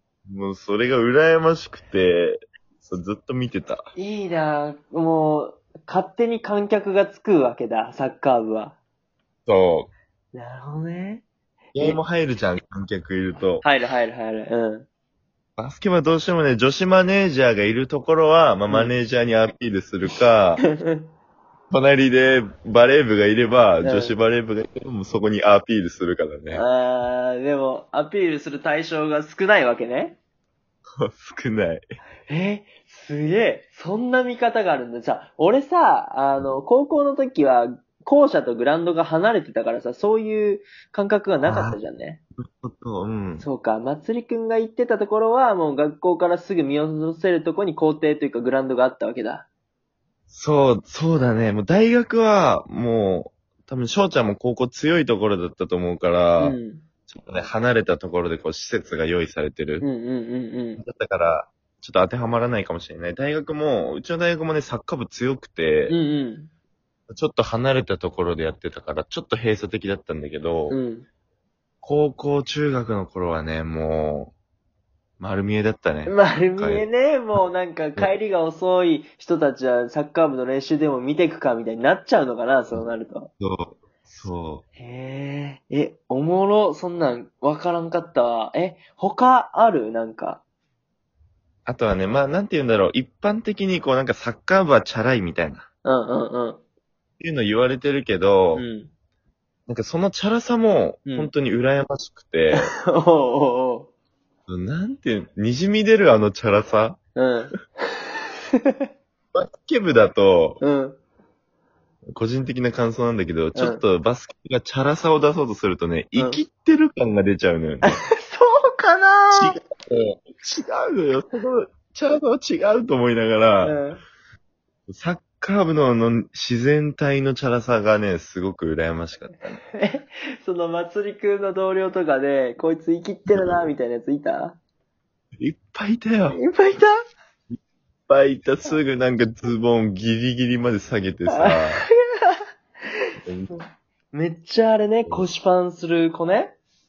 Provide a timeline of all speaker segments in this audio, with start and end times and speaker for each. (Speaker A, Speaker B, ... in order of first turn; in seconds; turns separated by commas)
Speaker A: 0.3-3.8, Speaker B: 4.0-8.8, Speaker A: 9.5-9.9, Speaker B: 10.3-11.2, Speaker B: 11.7-12.0, Speaker A: 11.7-13.6, Speaker B: 13.6-14.8, Speaker A: 15.6-20.6, Speaker B: 18.7-18.9, Speaker B: 20.6-21.1, Speaker A: 21.7-26.6, Speaker B: 23.8-24.1, Speaker B: 26.5-30.2, Speaker A: 31.0-31.8, Speaker B: 32.3-42.2, Speaker A: 41.5-41.8, Speaker A: 42.4-43.5, Speaker B: 43.4-49.5, Speaker A: 50.3-56.6, Speaker B: 56.4-56.8, Speaker A: 57.1-59.9, Speaker B: 59.8-60.8, Speaker A: 60.8-66.0, Speaker B: 65.9-66.5, Speaker A: 67.1-70.8, Speaker B: 70.7-71.0, Speaker A: 71.8-74.3, Speaker A: 75.2-76.9, Speaker B: 76.0-83.3, Speaker A: 83.4-84.6, Speaker B: 84.8-90.4, Speaker A: 91.7-95.6, Speaker B: 95.8-96.6, Speaker A: 97.2-98.6, Speaker B: 98.5-98.9, Speaker A: 99.7-102.7, Speaker B: 101.0-101.3, Speaker B: 102.5-103.9, Speaker A: 104.5-107.0, Speaker B: 107.2-108.9, Speaker A: 109.3-110.6, Speaker B: 110.6-111.0, Speaker A: 112.2-118.0, Speaker B: 113.5-113.8, Speaker B: 116.2-116.4, Speaker B: 117.8-119.6, Speaker A: 119.3-123.8, Speaker B: 123.6-124.0, Speaker A: 124.9-129.6, Speaker B: 129.7-134.6, Speaker A: 135.4-136.4, Speaker B: 136.3-136.9, Speaker A: 138.1-141.8, Speaker B: 141.3-142.4, Speaker A: 143.2-143.5, Speaker B: 144.1-146.5